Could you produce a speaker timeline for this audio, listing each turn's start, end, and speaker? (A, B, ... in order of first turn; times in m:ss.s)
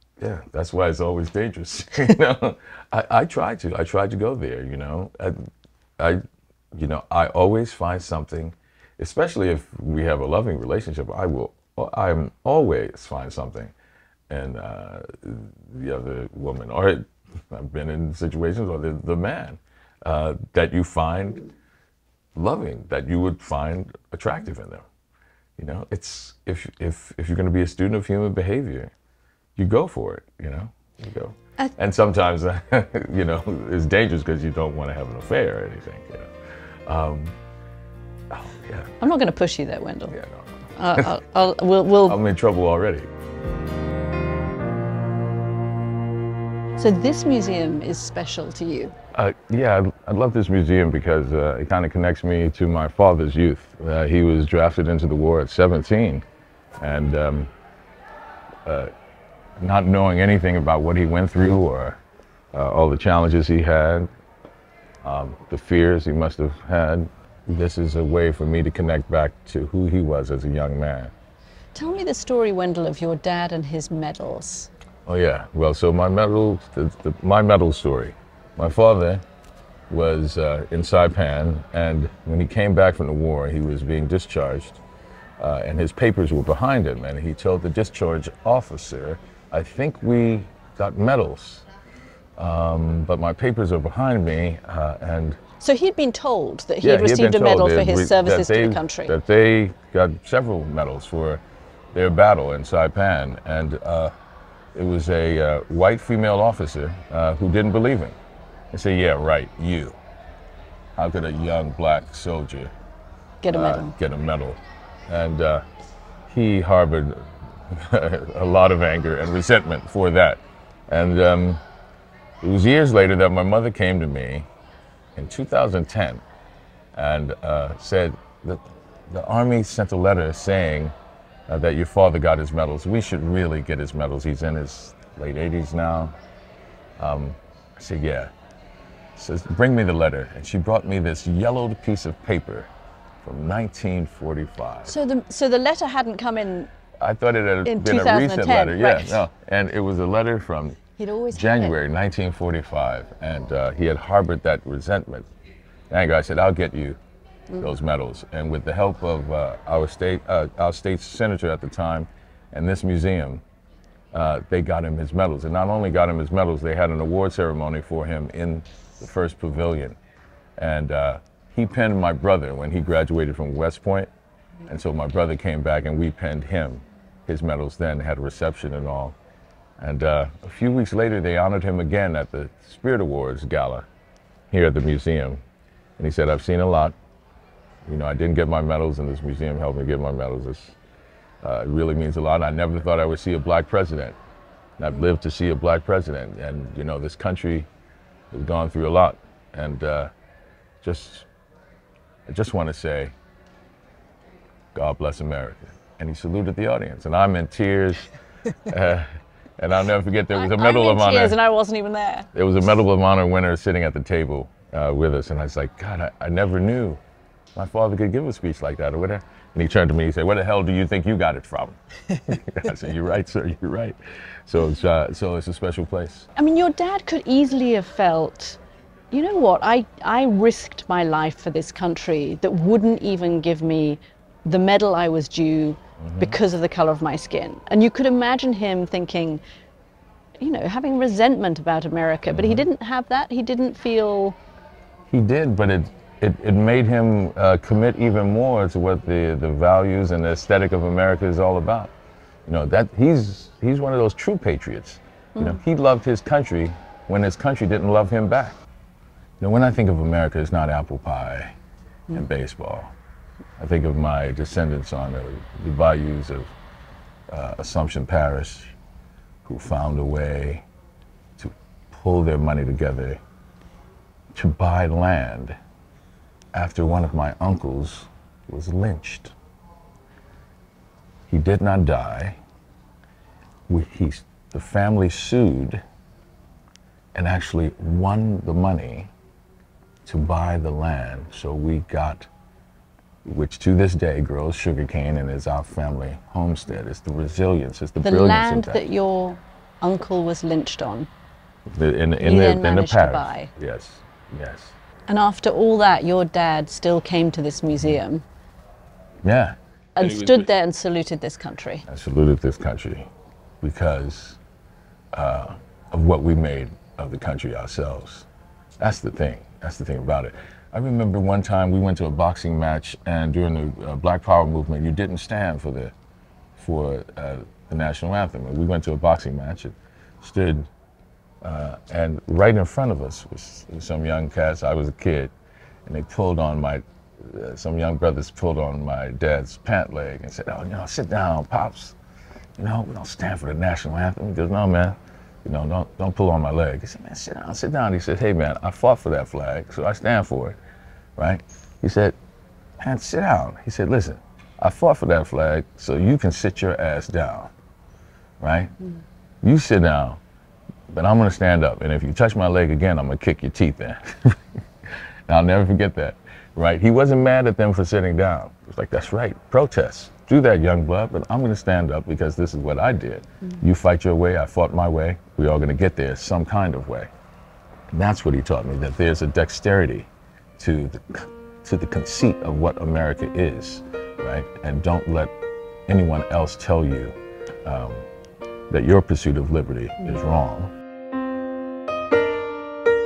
0:00.2-0:05.4 A
0:06.0-0:13.7 A
0:14.3-0:21.5 A
0:22.3-0:24.8 A
0:25.6-0:28.9 A
0:29.6-0:37.4 A
0:38.3-0:38.9 A
0:39.0-0:40.2 B
0:40.1-0:41.1 A
0:40.7-0:42.2 B
0:42.0-0:43.1 A
0:46.8-0:48.9 B
0:49.1-0:56.2 A
0:56.8-0:57.5 A
0:58.6-0:58.9 A
0:59.6-1:02.0 A
1:02.5-1:04.1 A
1:05.0-1:11.1 A
1:11.7-1:14.7 B
1:15.0-1:19.2 A
1:19.9-1:24.8 A
1:25.4-1:31.6 A
1:32.4-1:35.4 A
1:35.6-1:39.1 B
1:36.8-1:41.4 A
1:41.9-1:44.1 A
1:44.7-1:48.2 A
1:48.7-1:50.0 A
1:51.0-1:52.7 A
1:53.4-1:53.9 B
1:53.5-1:55.6 A
1:56.3-2:01.6 A
2:02.4-2:04.5 A
2:05.2-2:06.2 A
2:06.9-2:10.9 A
2:11.5-2:16.1 A
2:17.0-2:18.3 A
2:19.2-2:22.7 A
2:23.2-2:24.9 A
2:24.8-2:26.7 B
2:27.0-2:30.8 A
2:27.6-2:29.2 B
2:31.0-2:31.7 B
2:31.3-2:35.3 A
2:35.9-2:37.0 A
2:37.6-2:43.4 A
2:44.1-2:50.0 A
2:50.6-2:54.1 A
2:54.6-2:59.2 A
2:59.8-3:03.9 A
3:04.5-3:05.4 A
3:06.0-3:07.0 A
3:07.8-3:10.8 A
3:11.4-3:14.2 A
3:14.8-3:17.7 A
3:18.3-3:20.1 A
3:20.8-3:21.3 A
3:22.3-3:23.1 A
3:24.7-3:31.4 A
3:30.3-3:32.3 B
3:32.3-3:37.0 A
3:37.5-3:46.3 A
3:46.4-3:48.6 B
3:49.1-3:59.4 B
3:56.0-3:56.4 A
4:00.4-4:04.4 B
4:02.3-4:02.6 A
4:05.1-4:11.9 A
4:12.4-4:18.6 A
4:15.4-4:15.6 B
4:19.4-4:21.5 A
4:22.1-4:22.9 A
4:23.6-4:26.5 A
4:27.3-4:28.8 A
4:29.4-4:30.6 A
4:31.4-4:33.2 A
4:34.3-4:35.6 A
4:36.5-4:39.3 A
4:41.3-4:42.4 A
4:43.7-4:45.8 A
4:47.1-4:49.1 A
4:50.0-4:52.3 A
4:53.2-4:58.8 A
4:58.0-5:01.1 B
5:01.7-5:04.8 A
5:02.2-5:03.5 B
5:05.1-5:08.2 B
5:09.2-5:10.5 A
5:10.0-5:11.8 B
5:11.8-5:13.1 A
5:13.6-5:14.4 A
5:15.1-5:18.3 A
5:18.8-5:25.9 A
5:26.6-5:30.7 A
5:31.4-5:35.3 A
5:35.8-5:42.0 A
5:42.6-5:50.6 A
5:51.2-5:52.2 A
5:52.8-5:57.5 A
5:58.4-5:58.7 A
5:59.4-6:00.2 A
6:00.9-6:17.1 A
6:17.9-6:25.3 A
6:25.9-6:28.1 A
6:28.7-6:30.7 A